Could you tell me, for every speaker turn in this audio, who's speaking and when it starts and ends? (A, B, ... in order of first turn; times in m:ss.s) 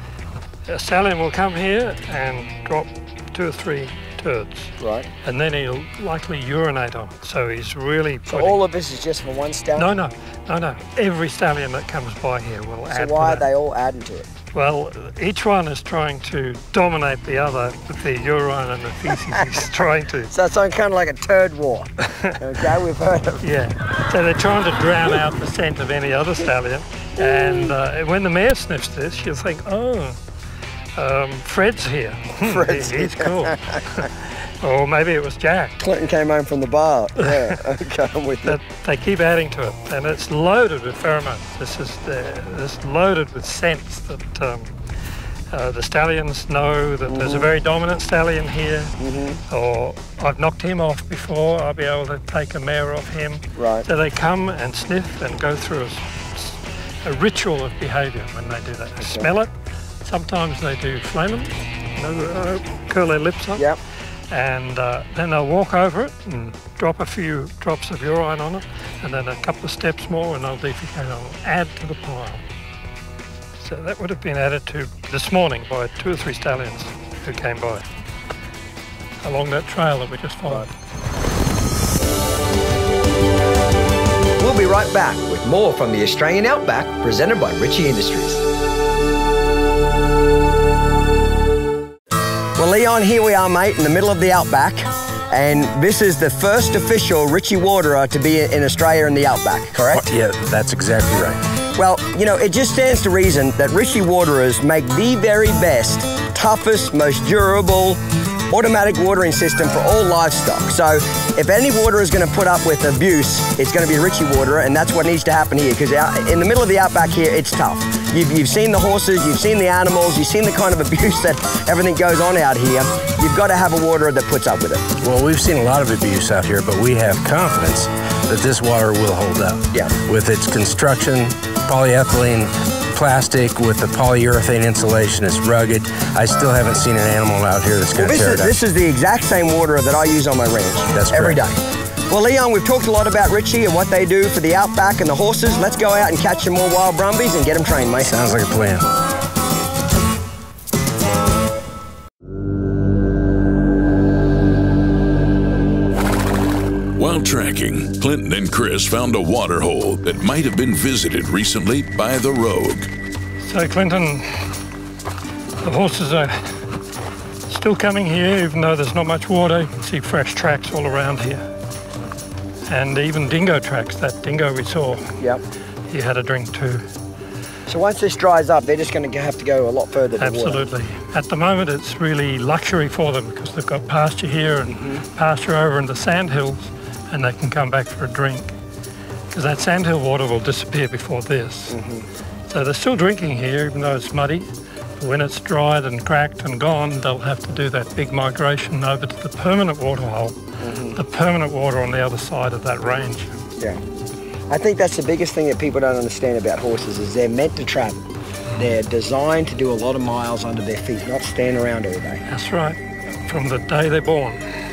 0:00.7-0:08.6 A
0:04.8-0:05.1 B
0:08.3-0:09.9 B
0:09.8-0:13.5 A
0:12.9-0:14.2 B
0:14.5-0:20.3 A
0:20.3-0:23.4 B
0:23.4-0:30.2 A
0:31.0-0:35.8 A
0:32.4-0:34.1 B
0:35.8-0:38.6 B
0:38.4-0:44.7 A
0:45.5-0:49.0 A
0:47.1-0:47.5 B
0:49.0-0:49.4 B
0:49.5-0:59.5 A
0:53.6-0:53.9 B
0:59.0-0:59.3 B
1:00.0-1:03.6 A
1:04.3-1:12.4 A
1:13.6-1:17.8 A
1:19.2-1:20.7 A
1:24.4-1:28.4 B
1:32.6-1:40.0 B
1:39.9-1:41.4 C
1:41.8-2:04.8 B
2:05.0-2:18.6 C
2:18.0-2:21.6 B
2:20.9-2:21.4 C
2:22.1-2:28.2 B
2:28.0-2:28.9 C
2:37.0-2:42.9 D
2:43.4-2:44.5 A
2:45.6-2:46.6 A
2:47.5-2:51.4 A
2:52.7-2:55.1 A
2:55.9-2:56.8 A
2:57.7-3:00.6 B
3:00.2-3:08.5 A
3:04.7-3:05.0 B
3:09.3-3:11.8 A
3:11.7-3:12.1 B
3:12.5-3:20.4 A
3:20.6-3:21.0 B
3:20.9-3:23.4 A
3:24.5-3:28.0 B
3:28.5-3:32.2 B
3:32.3-3:34.4 A